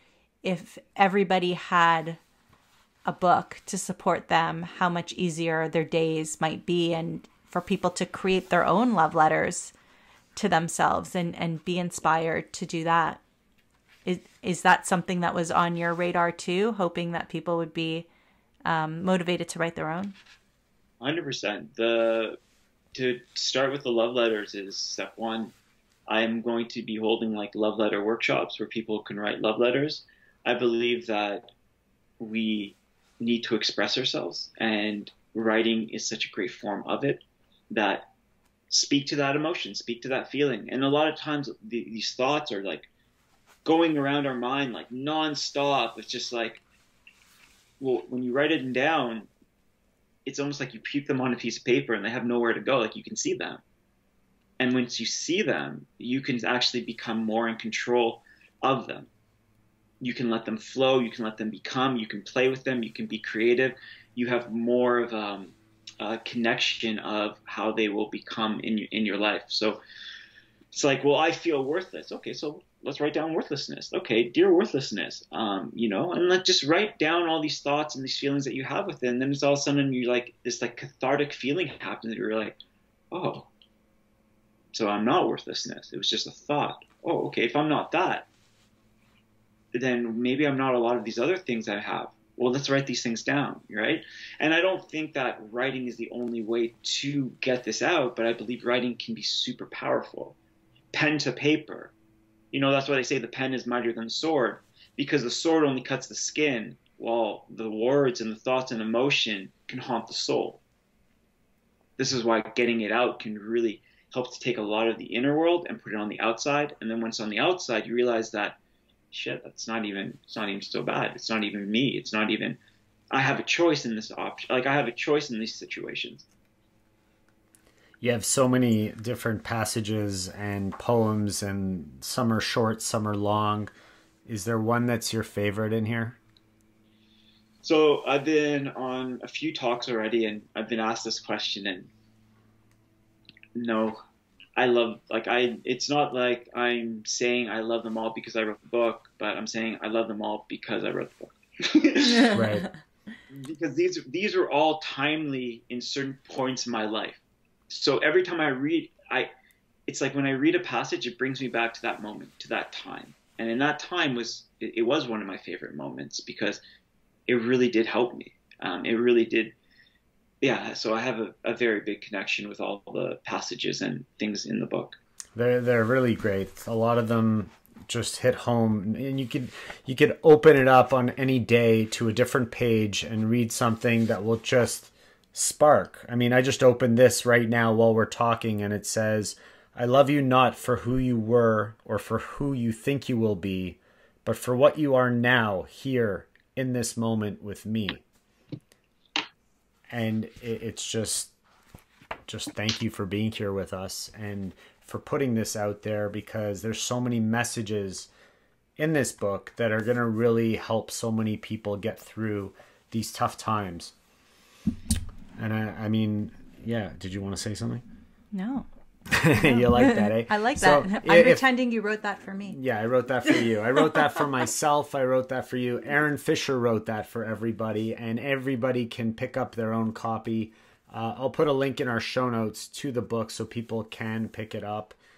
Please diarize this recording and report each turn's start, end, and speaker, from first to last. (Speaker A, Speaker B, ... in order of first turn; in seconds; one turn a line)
Speaker A: 0.4-2.2
Speaker A: 3.0-9.7
Speaker A: 10.3-13.2
Speaker A: 14.0-18.1
Speaker A: 18.6-20.1
Speaker B: 21.0-22.4
Speaker B: 22.9-25.5
Speaker B: 26.1-31.5
Speaker B: 32.2-38.1
Speaker B: 38.7-42.9
Speaker B: 43.6-46.6
Speaker B: 47.8-49.3
Speaker B: 50.2-53.6
Speaker B: 54.6-59.1
Speaker B: 60.0-69.8
Speaker B: 70.7-82.6
Speaker B: 83.1-83.5
Speaker B: 84.7-88.3
Speaker B: 89.7-100.4
Speaker B: 100.9-101.9
Speaker B: 102.5-110.6
Speaker B: 112.0-118.6
Speaker B: 119.1-122.6
Speaker B: 123.1-126.2
Speaker C: 128.0-133.7
Speaker C: 134.2-136.2
Speaker B: 137.6-141.9
Speaker B: 143.5-144.0
Speaker B: 144.6-152.4
Speaker A: 152.0-152.8
Speaker C: 152.3-152.6
Speaker B: 153.3-159.3
Speaker B: 159.9-166.6
Speaker B: 167.3-169.5
Speaker B: 170.4-175.0
Speaker C: 175.3-198.0
Speaker C: 199.9-201.3
Speaker C: 202.3-208.1
Speaker C: 208.8-213.9
Speaker C: 215.4-217.8
Speaker A: 218.3-218.7
Speaker C: 219.1-221.4
Speaker A: 219.3-222.6
Speaker C: 222.5-234.9